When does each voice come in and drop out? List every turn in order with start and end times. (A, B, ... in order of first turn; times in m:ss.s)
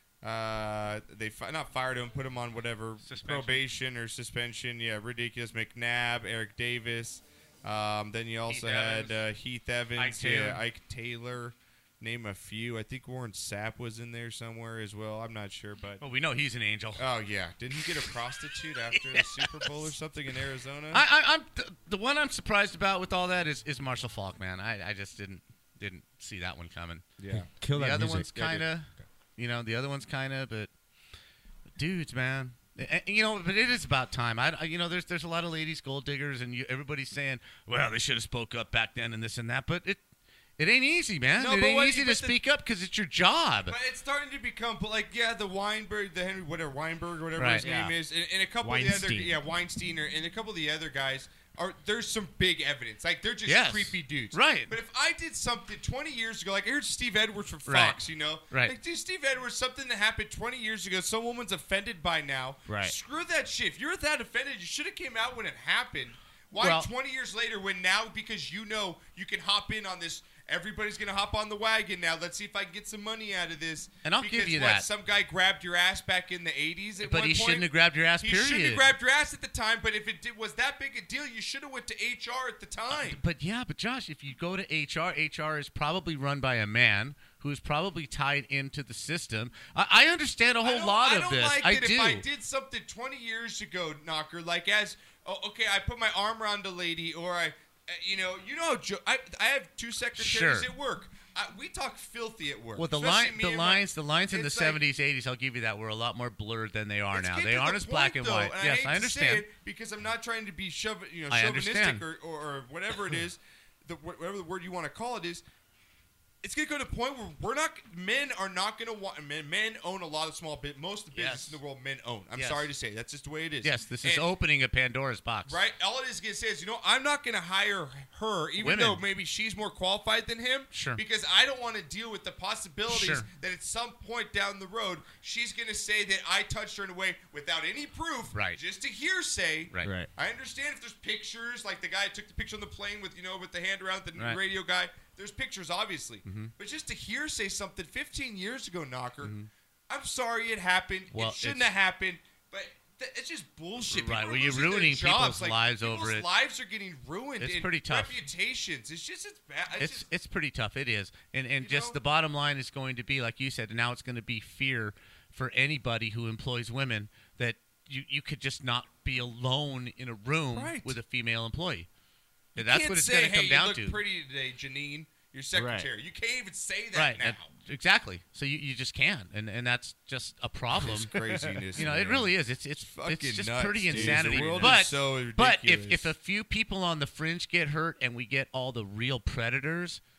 0:00.2-0:16.0 A
0:03.0-0:03.6 B
0:08.5-0:09.2 B
0:10.0-0:10.6 B
0:16.0-0:17.0 B
0:17.0-0:21.0 A
0:18.9-0:19.7 B
0:20.9-0:27.1 B
0:27.2-0:27.5 A
0:27.3-0:28.6 C
0:27.7-0:30.7 B
0:28.4-0:28.6 A
0:31.8-0:40.0 B
0:40.6-0:43.7 B
0:41.3-0:42.4 A
0:43.7-1:17.7 A
0:47.4-0:47.9 B
0:48.6-0:49.3 C
0:53.4-0:54.7 B
0:57.7-0:58.7 B
1:06.6-1:06.9 B
1:14.0-1:14.9 B
1:17.0-1:18.9 B
1:18.2-1:23.2 A
1:22.9-1:32.2 B
1:30.6-1:44.8 A
1:40.2-1:40.7 B
1:42.8-1:49.4 B
1:47.1-1:55.4 A
1:51.3-1:52.0 B
1:56.4-2:04.3 A
2:01.1-2:01.6 B
2:02.4-2:02.7 B
2:03.6-2:05.6 B
2:05.4-2:29.3 A
2:08.6-2:09.0 B
2:10.7-2:11.0 B
2:12.9-2:13.2 B
2:18.3-2:18.6 B
2:19.8-2:20.1 C
2:26.2-2:26.5 B
2:29.2-2:29.5 B
2:29.9-2:40.1 A
2:31.1-2:31.7 B
2:33.9-2:36.3 B
2:37.4-2:38.2 B
2:39.8-2:51.9 B
2:41.6-2:42.0 A
2:50.5-2:51.0 A
2:52.5-2:57.5 A
2:52.6-2:54.0 B
2:55.5-2:55.9 C
2:56.9-3:10.0 B
3:00.7-3:06.1 A
3:03.9-3:04.7 C